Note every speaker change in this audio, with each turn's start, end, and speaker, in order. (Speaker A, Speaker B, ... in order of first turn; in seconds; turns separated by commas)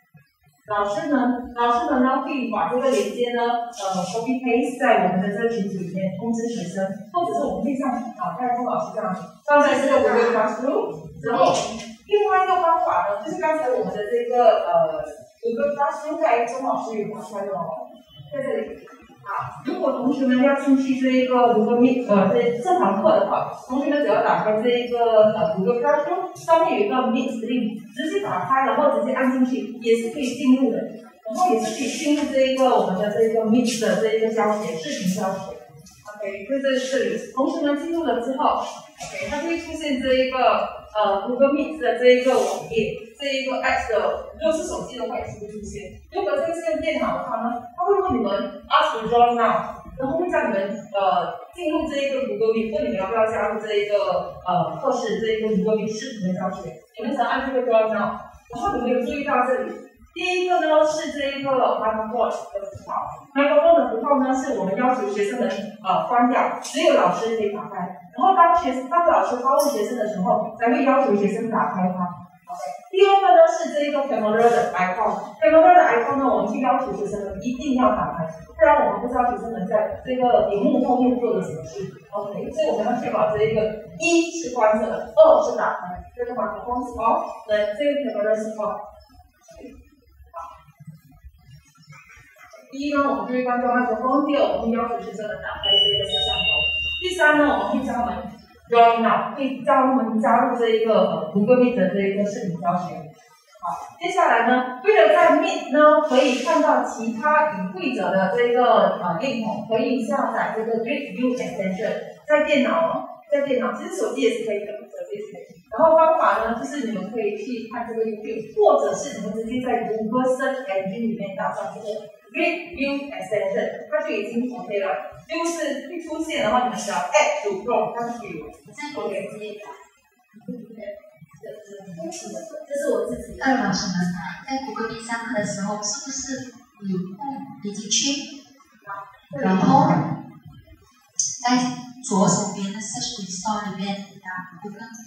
Speaker A: 0.7-88.8, Speaker B: 9.6-10.4, Speaker B: 11.3-11.6, Speaker A: 92.7-103.0, Speaker A: 103.6-129.3, Speaker C: 128.7-129.8, Speaker C: 132.0-132.4, Speaker B: 132.7-133.6, Speaker C: 133.4-138.2, Speaker A: 138.9-140.0, Speaker C: 139.3-140.1, Speaker C: 141.4-145.0